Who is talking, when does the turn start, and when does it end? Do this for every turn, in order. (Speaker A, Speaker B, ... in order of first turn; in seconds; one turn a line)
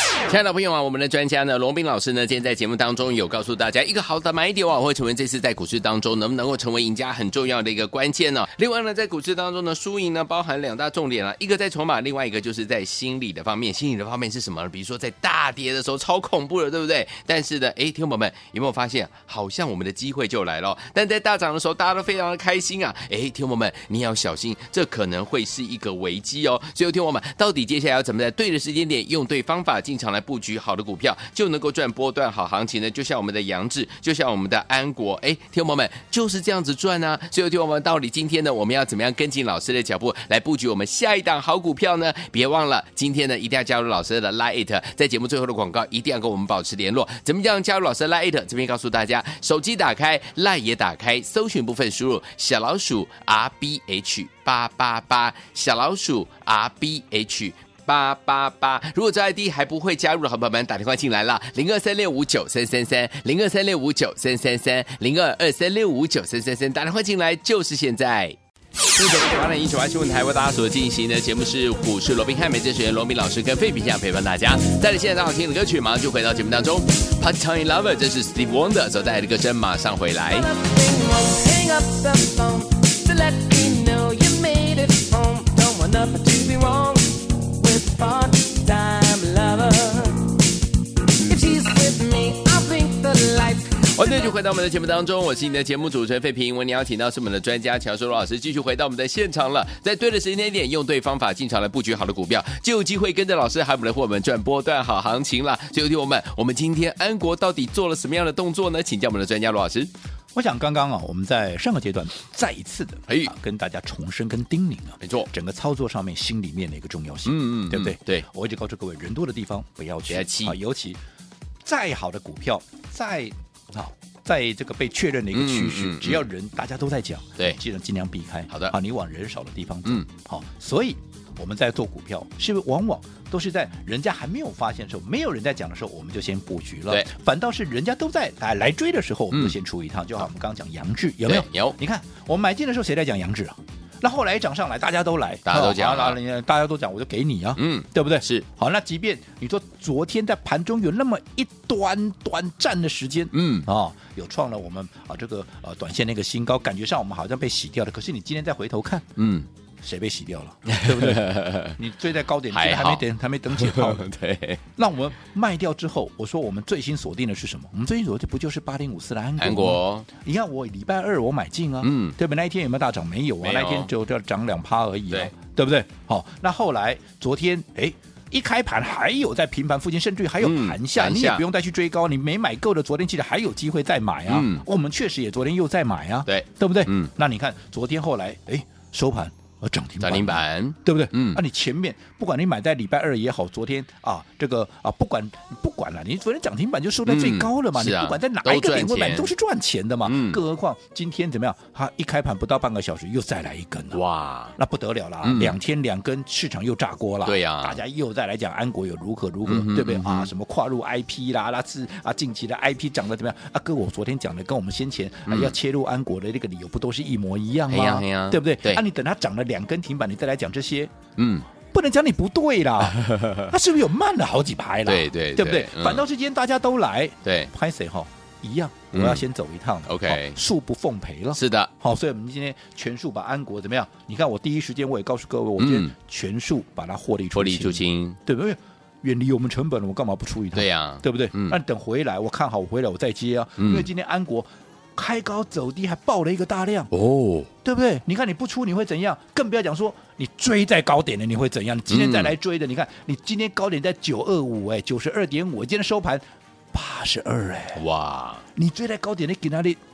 Speaker A: 0.2-68.4
Speaker A: 68.9-80.5
Speaker B: 80.3-90.4
Speaker B: 91.2-94.3
Speaker A: 93.9-109.9
Speaker C: 110.3-121.0
Speaker A: 113.1-113.3
Speaker A: 115.0-115.3
Speaker A: 117.2-118.2
Speaker A: 120.1-120.6
Speaker C: 121.6-159.1
Speaker A: 125.3-126.2
Speaker A: 139.3-139.6
Speaker A: 141.2-141.8
Speaker A: 145.5-146.2
Speaker A: 147.6-148.5
Speaker A: 153.3-153.7
Speaker A: 159.2-159.5
Speaker C: 159.8-164.1
Speaker A: 160.7-161.8
Speaker A: 162.5-164.6
Speaker C: 164.8-204.0
Speaker A: 169.4-170.1
Speaker A: 171.8-172.2
Speaker A: 173.4-173.9
Speaker A: 180.4-181.4
Speaker A: 184.3-184.6
Speaker A: 186.2-187.1
Speaker A: 190.0-191.4
Speaker A: 197.1-199.3
Speaker A: 200.1-200.4
Speaker A: 203.9-204.6
Speaker C: 204.6-220.9
Speaker A: 205.2-205.6
Speaker A: 207.2-207.8
Speaker A: 209.4-210.3
Speaker A: 215.3-215.6
Speaker A: 217.7-218.8
Speaker A: 221.2-221.5
Speaker C: 221.7-246.9
Speaker A: 223.0-223.5
Speaker A: 224.9-226.0
Speaker A: 227.2-227.5
Speaker A: 228.9-229.2
Speaker A: 229.9-230.4
Speaker A: 231.3-231.7
Speaker A: 235.6-235.9
Speaker A: 237.3-238.2
Speaker A: 240.5-241.6
Speaker A: 243.6-243.9
Speaker A: 246.9-247.5
Speaker C: 247.6-257.8
Speaker A: 251.9-252.3
Speaker A: 257.8-258.4
Speaker C: 258.6-259.8